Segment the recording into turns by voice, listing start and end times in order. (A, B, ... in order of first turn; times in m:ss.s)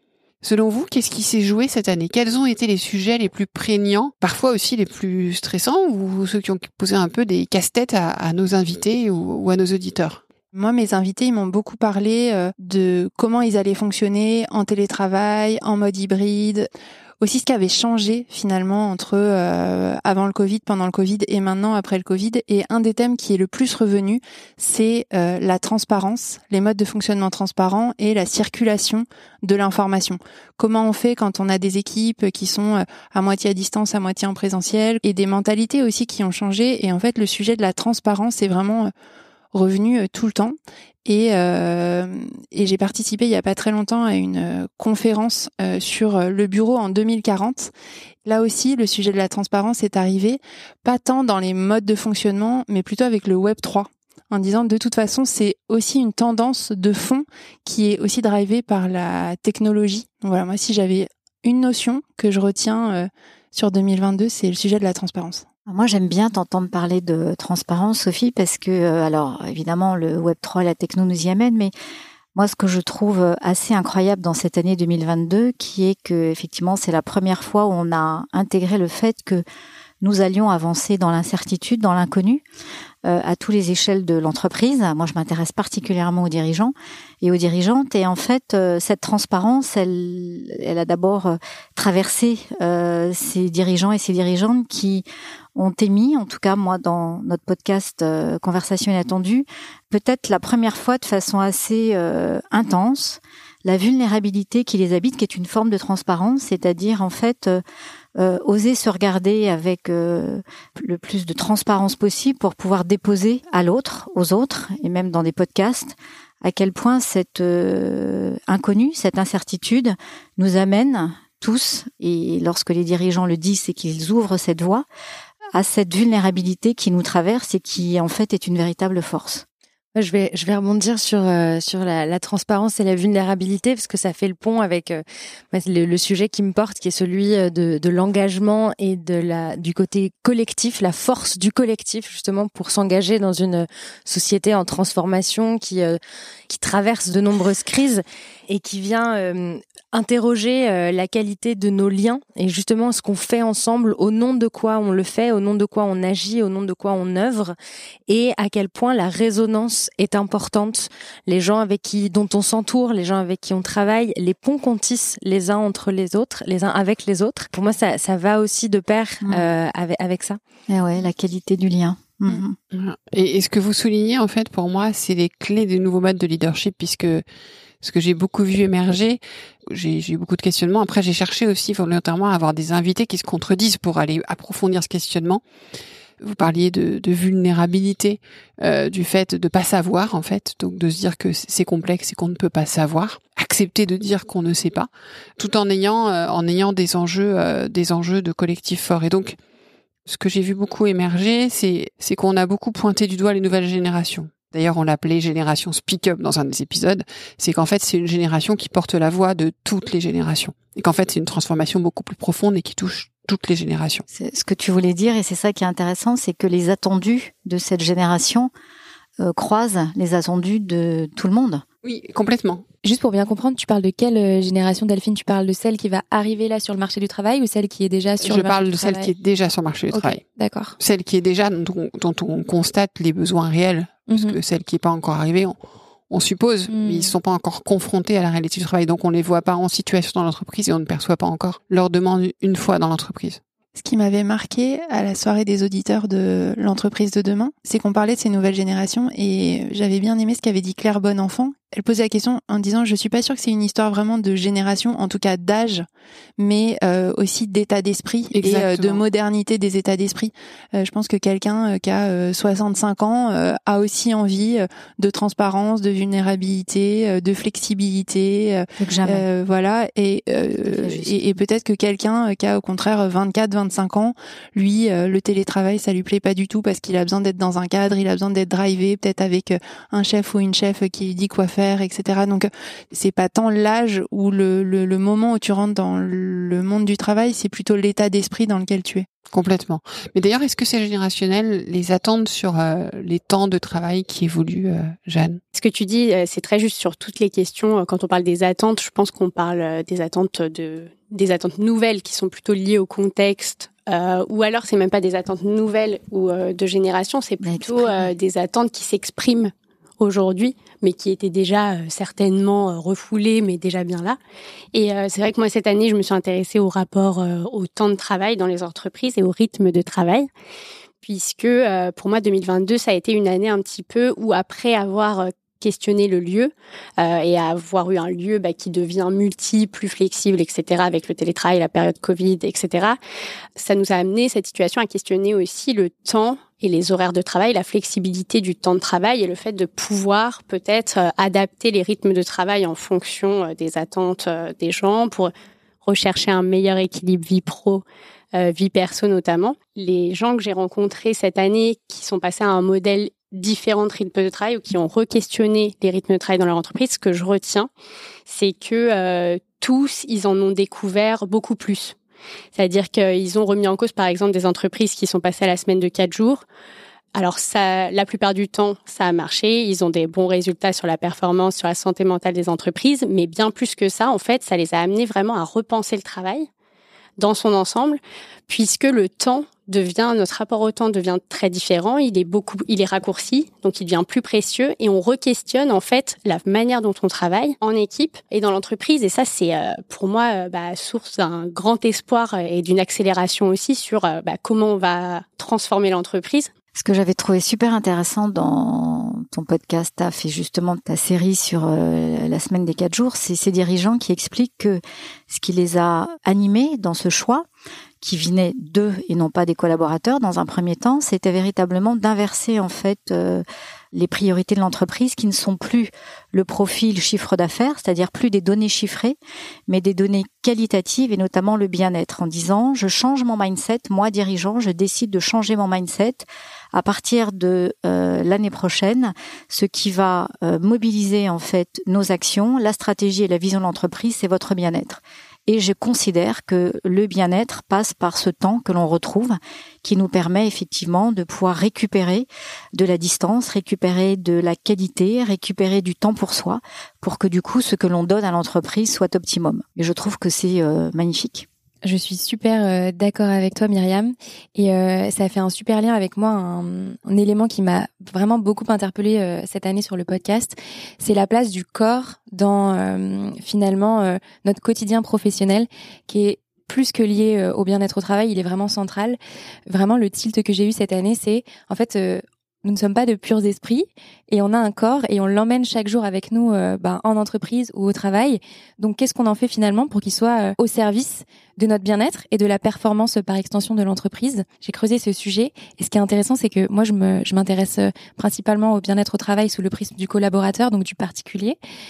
0:00.4-0:10.2 A
0:10.5-0:16.7 B
0:17.2-0:38.9 B
0:39.5-0:47.7 B
0:48.2-1:05.4 B
1:05.7-1:11.7 C
1:12.4-1:19.4 C
1:20.0-1:22.4 C
1:23.0-1:47.6 C
1:48.2-2:04.9 C
2:05.5-2:09.4 C
2:10.0-2:37.6 D
2:38.1-2:50.4 D
2:50.7-2:52.6 C
2:52.7-2:57.2 A
2:57.8-3:05.4 A
3:06.2-3:19.4 A
3:20.1-3:34.0 A
3:34.1-3:38.5 C
3:39.2-3:41.6 C
3:41.8-3:42.6 A
3:42.8-3:49.1 E
3:48.2-3:50.2 A
3:49.9-3:50.8 E
3:50.8-3:55.6 A
3:54.1-3:54.4 E
3:56.1-4:03.4 A
3:56.7-3:57.2 E
4:03.8-4:15.9 B
4:16.4-4:49.1 B
4:18.3-4:19.0 A
4:28.8-4:29.3 C
4:30.6-4:31.2 C
4:49.3-4:55.4 A
4:55.6-5:14.2 F
5:07.4-5:08.1 C
5:14.7-5:20.3 F
5:21.0-5:33.0 F
5:33.6-5:45.3 F
5:45.8-5:57.7 F
5:58.3-6:02.0 F
6:02.5-6:06.4 F
6:07.2-6:16.5 F
6:17.2-6:36.5 F
6:36.7-6:47.5 C
6:48.0-6:59.2 C
6:59.7-7:31.5 C
7:31.8-8:11.6 E